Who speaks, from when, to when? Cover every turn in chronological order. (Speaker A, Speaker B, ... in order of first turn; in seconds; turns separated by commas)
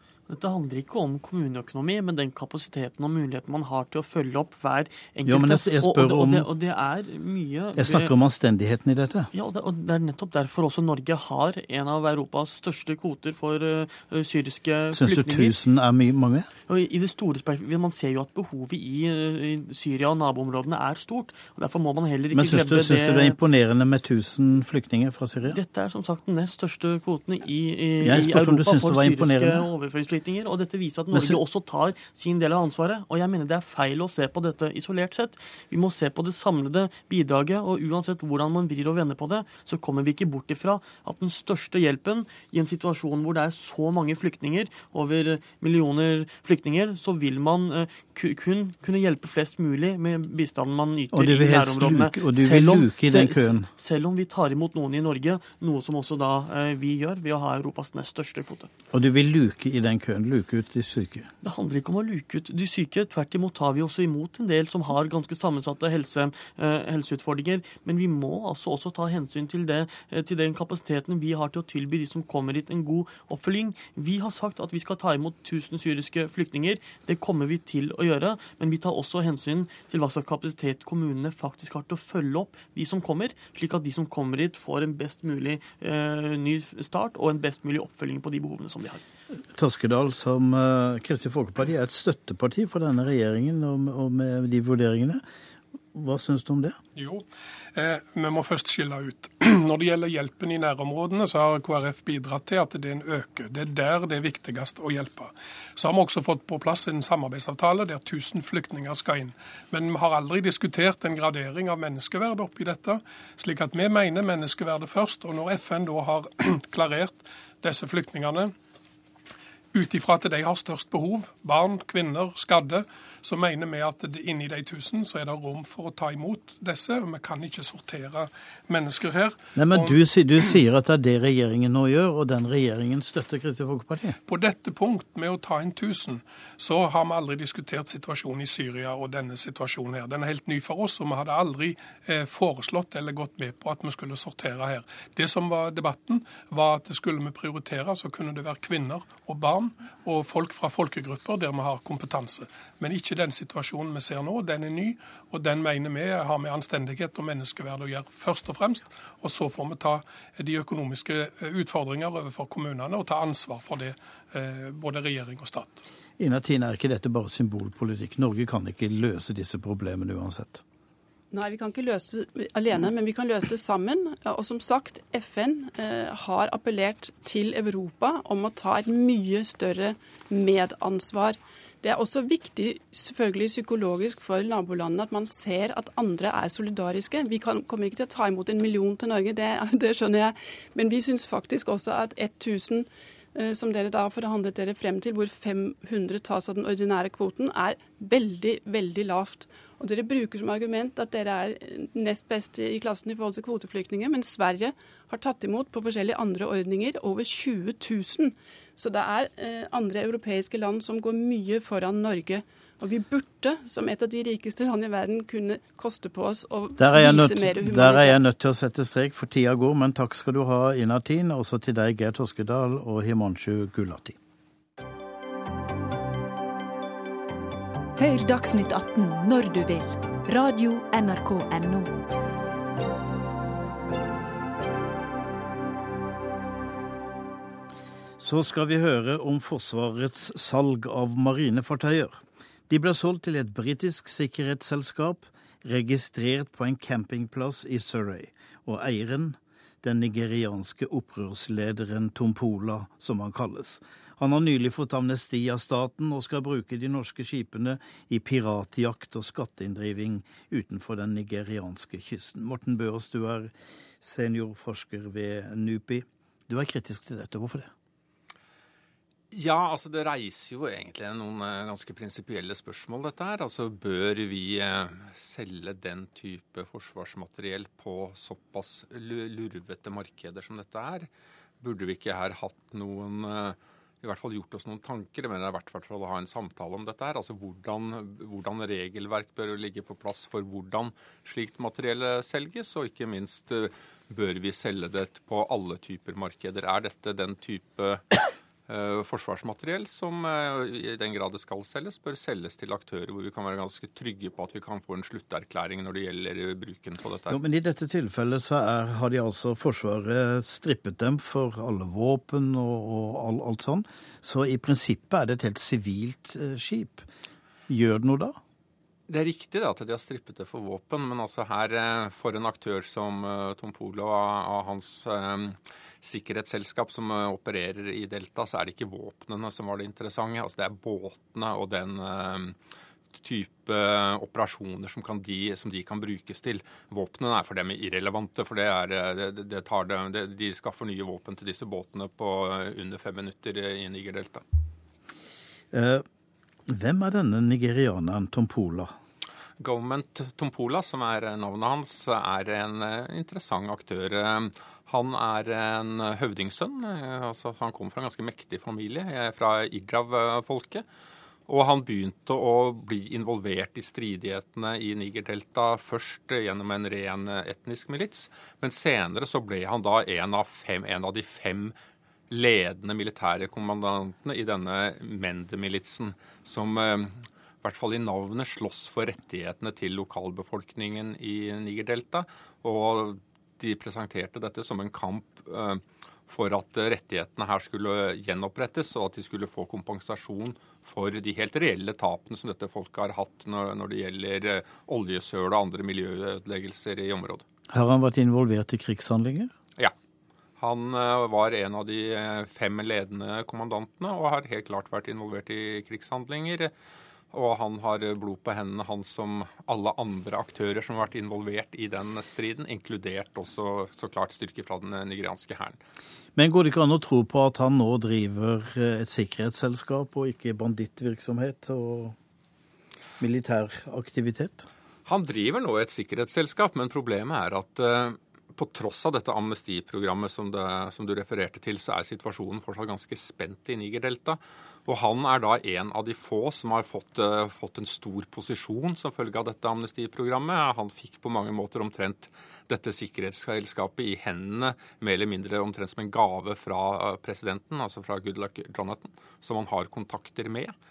Speaker A: 0.3-8.1, Speaker B: 5.2-6.5, Speaker B: 7.8-9.3, Speaker A: 9.3-15.6, Speaker B: 14.9-16.5, Speaker A: 16.7-23.4, Speaker B: 22.3-25.6, Speaker A: 25.4-58.7, Speaker B: 28.0-29.7, Speaker B: 31.1-31.4, Speaker B: 51.1-53.7, Speaker B: 58.9-61.3, Speaker A: 61.4-89.0, Speaker B: 89.5-95.2, Speaker B: 95.9-96.8, Speaker C: 97.0-118.5, Speaker C: 119.7-130.5, Speaker B: 129.5-134.2, Speaker C: 134.3-165.8, Speaker B: 166.2-170.6, Speaker D: 171.3-218.3, Speaker B: 216.8-224.2, Speaker E: 228.0-231.9, Speaker B: 238.2-267.7, Speaker F: 269.3-281.1, Speaker F: 281.6-298.1, Speaker F: 298.7-307.4, Speaker B: 307.3-317.1, Speaker B: 317.7-318.4, Speaker F: 319.1-332.6, Speaker F: 333.1-344.4, Speaker B: 345.7-346.0, Speaker B: 346.7-348.9, Speaker F: 349.6-360.8, Speaker F: 361.5-371.7, Speaker F: 372.3-397.4, Speaker B: 397.7-399.5, Speaker F: 400.6-406.7, Speaker F: 407.3-415.8, Speaker B: 416.4-422.2, Speaker B: 423.2-424.7, Speaker F: 425.1-450.7